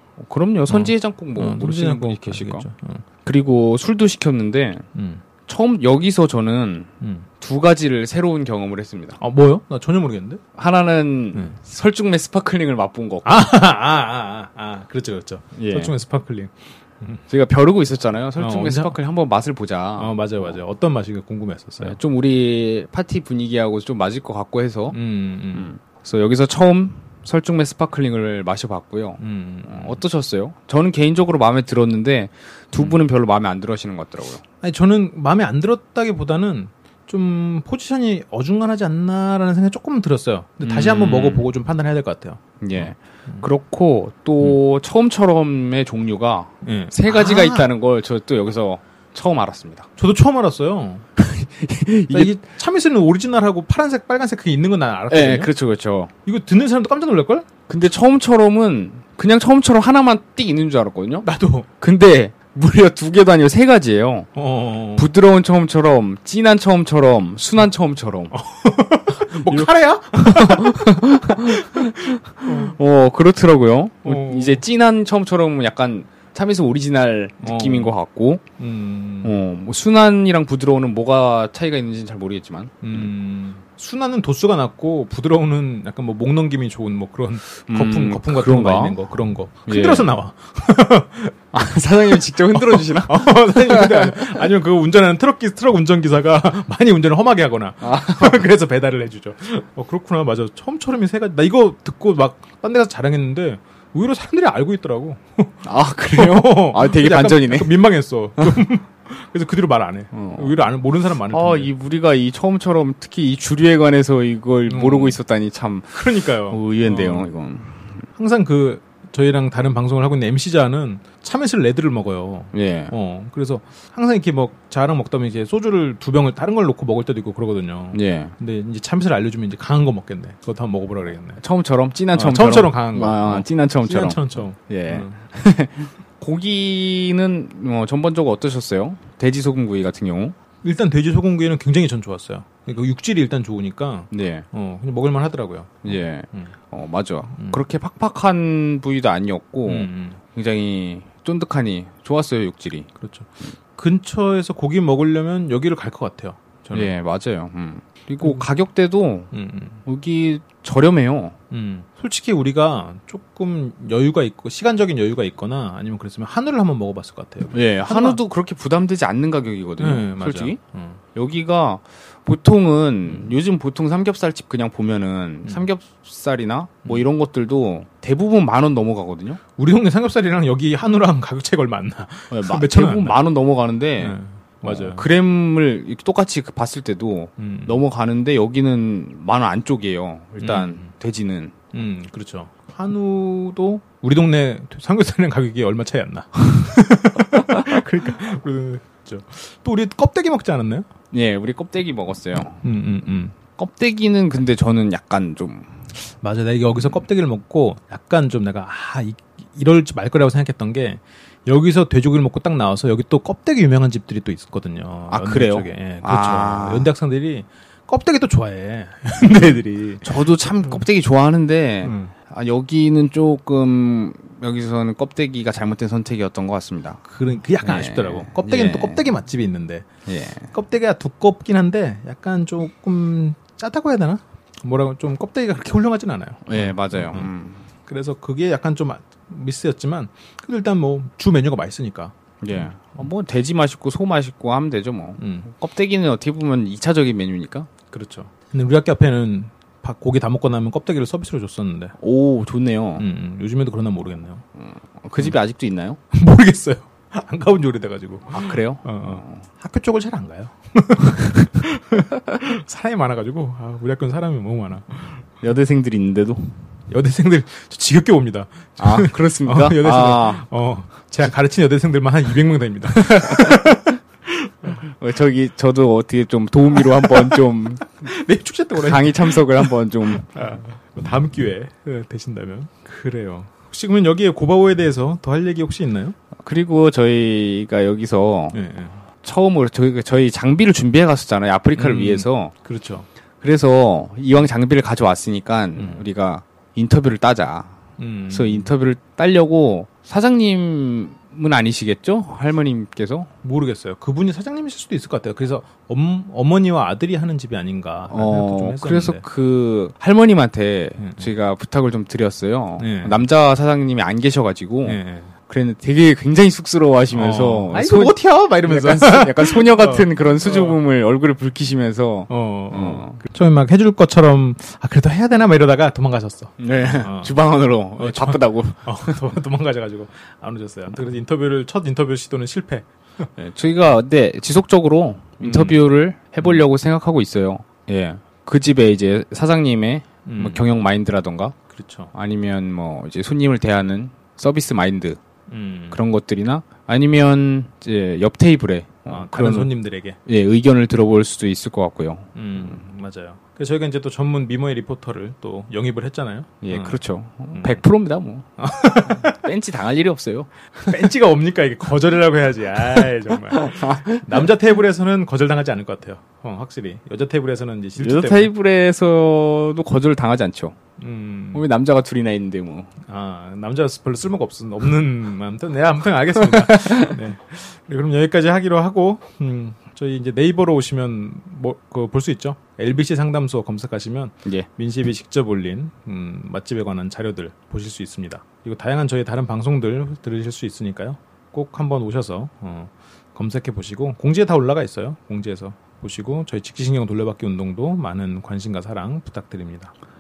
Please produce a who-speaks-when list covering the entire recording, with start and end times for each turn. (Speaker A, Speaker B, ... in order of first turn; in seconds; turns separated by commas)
Speaker A: 0.2-2.7, Speaker B: 0.7-3.0, Speaker A: 3.2-4.9, Speaker B: 5.0-5.2, Speaker A: 5.5-9.2, Speaker B: 7.0-7.3, Speaker B: 9.2-10.4, Speaker A: 10.6-13.4, Speaker B: 13.2-17.2, Speaker A: 15.6-15.9, Speaker A: 17.3-20.6, Speaker B: 18.4-19.0, Speaker B: 20.0-22.0, Speaker A: 21.8-25.0, Speaker B: 24.9-25.7, Speaker A: 25.6-34.4, Speaker B: 29.2-30.0, Speaker B: 32.7-33.0, Speaker B: 34.6-43.5, Speaker A: 40.6-41.5, Speaker A: 42.6-49.9, Speaker B: 46.6-47.7, Speaker B: 50.0-51.1, Speaker A: 51.2-52.4, Speaker B: 52.1-55.5, Speaker A: 55.1-56.1, Speaker B: 56.3-57.5, Speaker A: 57.7-61.3, Speaker B: 61.2-61.7, Speaker A: 61.8-64.3, Speaker B: 64.3-65.1, Speaker A: 65.0-68.4, Speaker B: 68.3-72.8, Speaker A: 69.5-78.4, Speaker B: 74.0-74.6, Speaker B: 77.4-78.0, Speaker B: 78.6-79.4, Speaker A: 79.2-83.1, Speaker B: 82.8-91.3, Speaker A: 87.7-89.0, Speaker A: 89.6-90.1, Speaker A: 91.5-94.4, Speaker B: 92.1-111.7, Speaker A: 97.8-98.4, Speaker A: 105.7-108.6, Speaker A: 110.1-110.6, Speaker A: 111.3-117.9, Speaker B: 114.7-115.2, Speaker B: 115.9-117.4, Speaker B: 118.2-131.4, Speaker A: 122.5-122.9, Speaker A: 127.9-128.3, Speaker A: 131.4-140.4, Speaker B: 132.1-135.2, Speaker B: 140.6-146.6, Speaker A: 144.1-144.5, Speaker A: 145.8-152.9, Speaker B: 147.3-147.6, Speaker B: 149.7-150.2, Speaker B: 153.0-156.9, Speaker A: 156.7-159.3, Speaker B: 158.2-158.5, Speaker B: 159.3-159.8, Speaker A: 159.8-161.4, Speaker B: 161.5-168.2, Speaker A: 167.5-170.6, Speaker B: 169.8-171.0, Speaker A: 171.1-179.4, Speaker B: 173.1-173.4, Speaker B: 179.6-183.2, Speaker A: 182.3-191.5, Speaker B: 184.0-185.1, Speaker B: 187.4-187.8, Speaker B: 190.4-190.9, Speaker B: 191.7-200.9, Speaker A: 201.1-202.6, Speaker B: 202.4-203.3, Speaker A: 203.5-205.7, Speaker B: 206.2-220.7, Speaker A: 215.1-216.9, Speaker A: 220.0-227.0, Speaker B: 221.8-222.1, Speaker B: 227.1-229.9, Speaker A: 227.6-229.1, Speaker A: 230.1-230.5, Speaker B: 230.5-237.3, Speaker A: 236.5-237.7, Speaker B: 237.9-243.1, Speaker A: 242.4-247.7, Speaker B: 245.2-245.5, Speaker B: 247.9-251.9, Speaker A: 252.0-253.1, Speaker B: 253.0-254.4, Speaker A: 254.6-256.0, Speaker B: 256.1-265.2, Speaker A: 258.3-259.4, Speaker A: 265.4-266.6, Speaker B: 266.9-274.0, Speaker A: 268.8-270.4, Speaker A: 273.1-273.6, Speaker A: 274.8-277.9, Speaker B: 276.8-286.1, Speaker A: 278.8-280.3, Speaker A: 286.4-288.6, Speaker B: 288.5-289.0, Speaker A: 289.2-292.5, Speaker B: 291.7-293.1, Speaker A: 293.4-297.8, Speaker B: 295.8-296.1, Speaker B: 298.0-298.7, Speaker A: 298.3-303.3, Speaker B: 303.4-309.2, Speaker A: 308.1-323.2, Speaker B: 311.0-311.3, Speaker B: 312.8-313.2, Speaker B: 314.8-315.3, Speaker B: 317.1-320.8, Speaker B: 322.3-333.3, Speaker A: 326.6-329.2, Speaker A: 333.4-341.6, Speaker B: 335.4-336.7, Speaker B: 340.3-340.7, Speaker B: 341.7-342.1, Speaker A: 342.1-345.2, Speaker B: 345.5-346.0, Speaker A: 345.9-352.8, Speaker B: 349.1-350.2, Speaker B: 352.4-357.8, Speaker A: 356.6-358.5, Speaker B: 358.6-359.4, Speaker A: 359.1-360.5, Speaker B: 360.9-368.5, Speaker A: 363.3-364.2, Speaker A: 368.0-370.8, Speaker B: 371.0-371.7, Speaker A: 371.5-372.9, Speaker B: 373.1-399.9, Speaker A: 376.5-377.1